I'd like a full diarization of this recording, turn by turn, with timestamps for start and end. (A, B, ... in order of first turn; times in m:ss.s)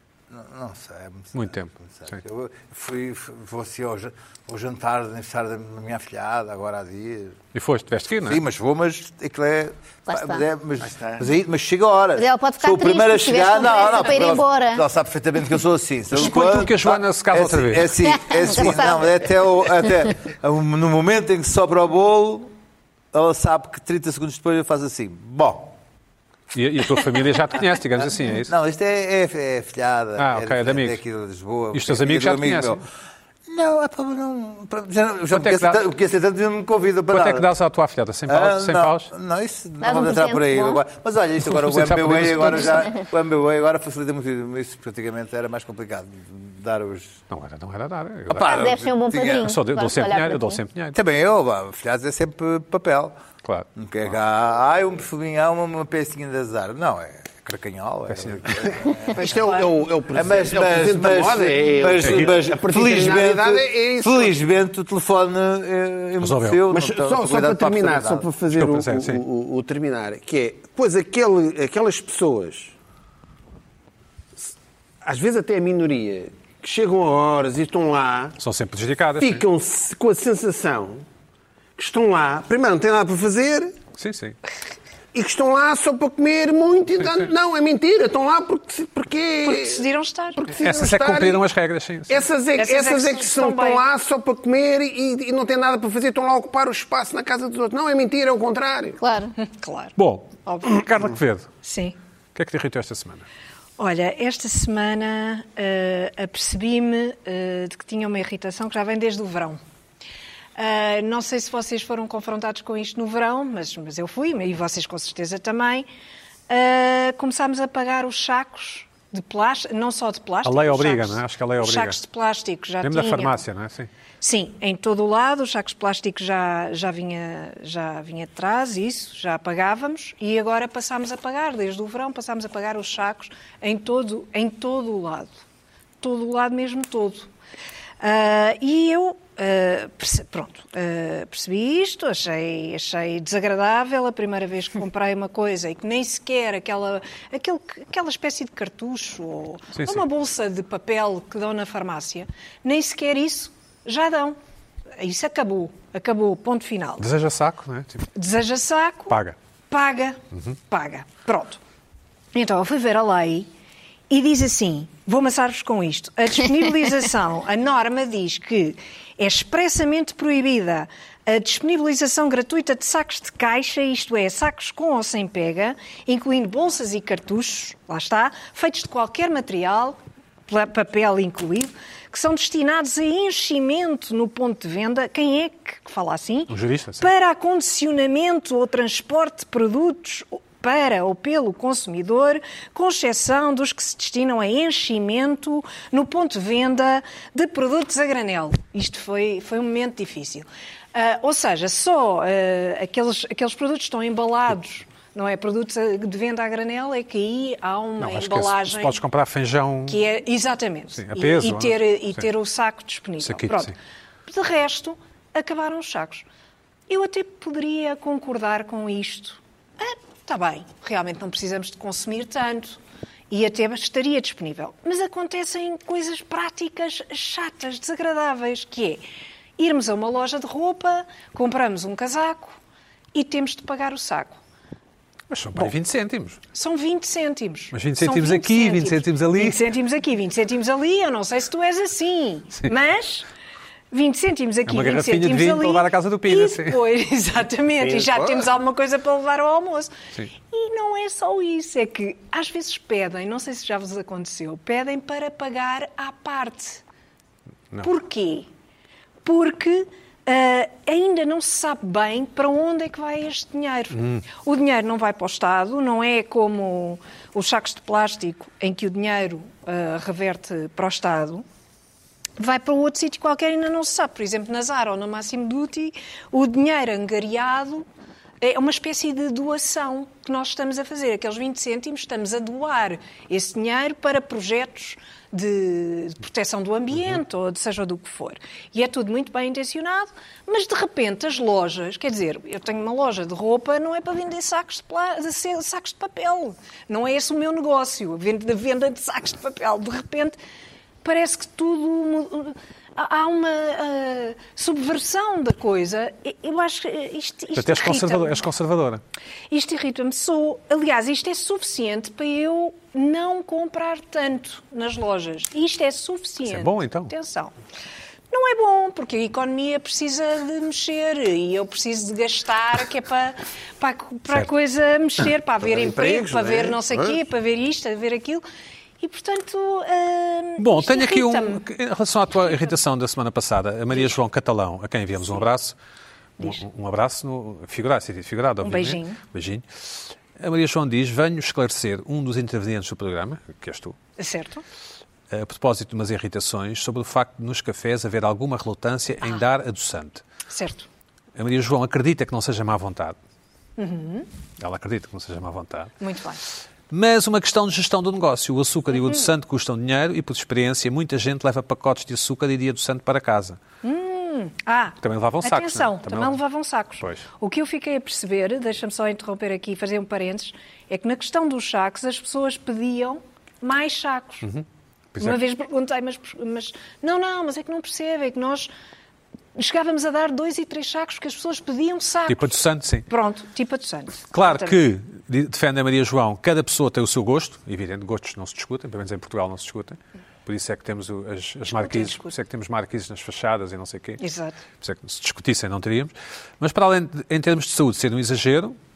0:00.3-0:07.4 A
0:01.3-0:02.2 B
0:07.5-0:08.4 B
0:08.2-0:22.5 A
0:10.1-0:10.4 C
0:12.2-0:14.8 C
0:16.1-0:18.0 B
0:18.1-0:19.3 C
0:23.1-0:25.7 A
0:26.5-0:28.5 B
0:28.3-0:32.8 A
0:30.2-0:31.0 B
0:31.7-0:32.8 B
0:33.5-0:37.5 A
0:35.3-0:35.8 B
0:37.1-0:39.1 B
0:38.3-0:47.2 A
0:39.8-0:40.8 C
0:41.4-0:42.9 B
0:47.3-0:48.6 B
0:48.3-0:49.5 A
0:48.4-0:50.6 C
0:49.4-0:51.0 B
0:50.9-0:53.2 A
0:53.7-0:59.4 A
0:58.1-0:58.7 B
0:59.1-1:04.4 D
0:59.2-0:59.6 E
1:00.1-1:08.3 A
1:02.0-1:02.3 B
1:06.2-1:06.6 B
1:06.7-1:12.8 D
1:08.5-1:09.2 B
1:14.4-1:18.4 D
1:18.4-1:19.4 B
1:19.2-1:21.0 D
1:21.8-1:23.7 D
1:24.0-1:24.4 B
1:25.1-1:31.4 D
1:27.0-1:27.3 B
1:29.4-1:30.6 E
1:30.6-1:32.2 B
1:32.1-1:39.0 D
1:32.6-1:33.8 E
1:39.0-1:39.4 C
1:39.4-1:39.9 E
1:40.0-1:41.5 B
1:40.4-1:40.8 E
1:41.6-1:41.9 E
1:42.3-1:43.2 B
1:43.8-1:49.6 E
1:50.6-1:55.8 E
1:56.5-2:03.4 E
2:00.4-2:02.0 B
2:02.8-2:03.9 B
2:04.2-2:15.3 E
2:16.0-2:17.3 E
2:18.0-2:34.4 E
2:29.8-2:30.0 B
2:35.0-2:37.0 E
2:37.0-2:38.1 B
2:38.1-2:39.2 E
2:39.1-2:39.4 B
2:39.7-2:41.6 E
2:42.3-2:43.5 E
2:44.1-3:29.0 E
3:06.5-3:07.1 B
3:28.0-3:30.0 B
3:29.9-3:33.7 E
3:30.9-3:32.2 B
3:33.2-3:33.7 B
3:34.3-3:36.2 E
3:36.9-3:49.0 E
3:49.6-3:52.6 E
3:53.1-3:54.4 E
3:55.3-3:56.4 B
3:56.5-4:03.2 E
3:57.7-3:59.6 B
4:03.9-4:09.9 E
4:04.7-4:06.8 B
4:07.8-4:08.5 D
4:10.5-4:16.8 E
4:17.8-4:18.5 E
4:19.2-4:31.4 E
4:23.9-4:24.2 B
4:32.4-4:37.8 E
4:38.4-5:00.4 E
5:01.0-5:08.4 E
5:07.6-5:09.0 B
5:09.5-5:17.5 E
5:16.4-5:17.1 B
5:18.3-5:28.4 E
5:25.6-5:27.2 D
5:29.0-5:31.6 E
5:30.6-5:35.8 B
5:36.4-5:36.6 E
5:36.4-5:44.0 B
5:38.6-5:39.2 E
5:44.2-5:44.6 E
5:45.3-5:50.2 B
5:50.5-5:50.9 E
5:51.4-5:53.2 B
5:53.8-5:54.3 E
5:54.6-5:55.9 B
5:56.0-5:56.4 E
5:56.9-6:03.6 B
5:58.9-5:59.3 E
6:03.8-6:14.4 E
6:05.0-6:06.4 B
6:14.4-6:15.4 B
6:15.2-6:18.7 E
6:19.5-6:22.6 E
6:22.3-6:23.1 B
6:23.1-6:24.8 E
6:24.3-6:34.2 B
6:31.7-6:32.3 E
6:34.2-6:34.6 E
6:34.8-6:38.8 B